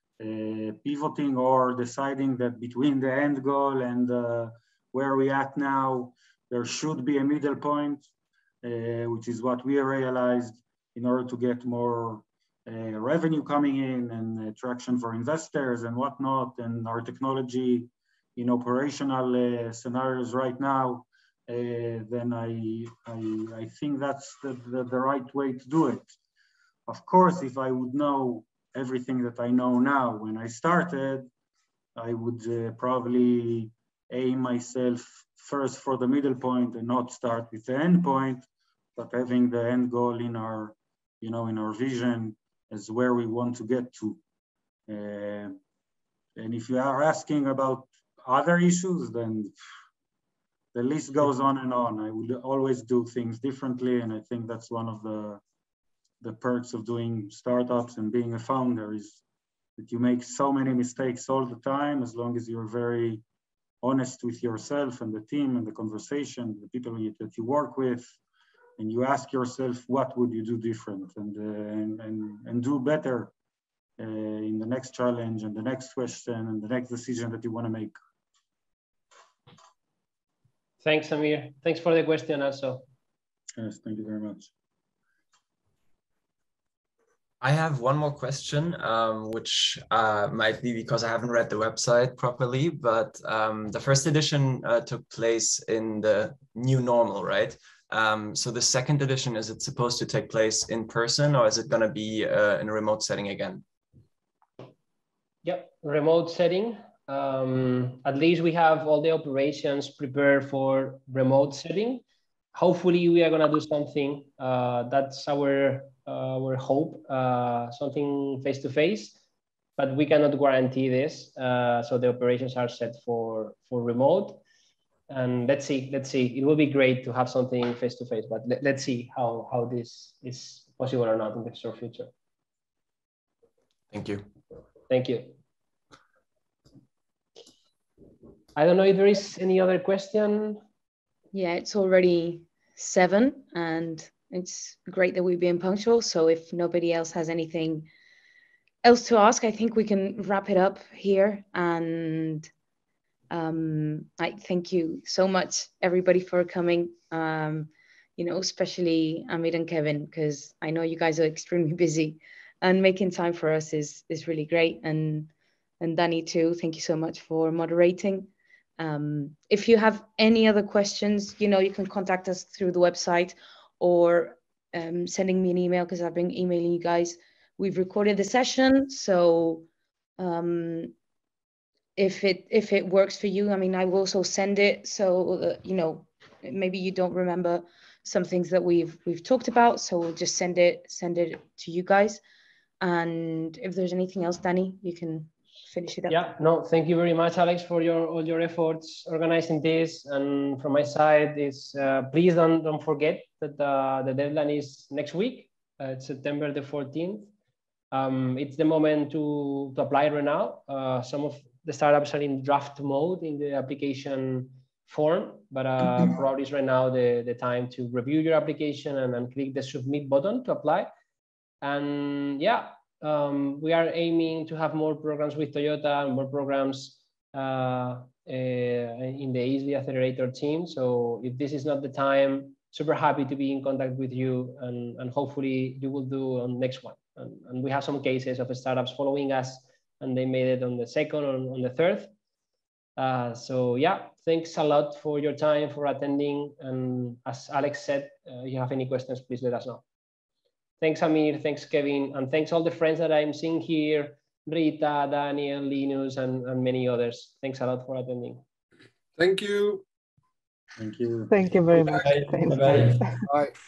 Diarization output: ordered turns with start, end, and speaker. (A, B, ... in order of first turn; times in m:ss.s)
0:00.2-0:08.1 A
0:08.6-0:26.1 A
0:26.9-0:31.3 A
0:32.0-0:38.4 A
0:39.0-0:44.2 A
0:44.9-0:45.6 A
0:46.4-0:49.5 A
0:50.7-0:55.4 A
0:56.2-0:59.2 A
0:59.8-1:03.2 A
1:03.8-1:08.2 A
1:08.8-1:13.3 A
1:14.0-1:18.0 A
1:20.8-1:22.8 B
1:23.6-1:24.5 A
1:27.4-1:43.6 C
1:45.4-1:52.0 B
1:52.6-1:59.2 B
1:59.8-2:04.4 B
2:05.1-2:12.1 B
2:13.9-2:14.3 C
2:14.9-2:15.4 B
2:18.6-2:20.6 B
2:21.3-2:27.9 D
2:28.8-2:32.5 D
2:33.3-2:59.6 D
3:00.2-3:00.9 D
3:02.0-3:12.2 D
3:12.8-3:16.3 D
3:16.1-3:27.3 B
3:27.9-3:40.9 B
3:41.6-4:02.1 B
4:03.0-4:09.8 B
4:10.8-4:18.4 B
4:19.2-4:19.8 E
4:20.8-4:21.3 A
4:21.3-4:23.3 F
4:21.7-4:23.5 E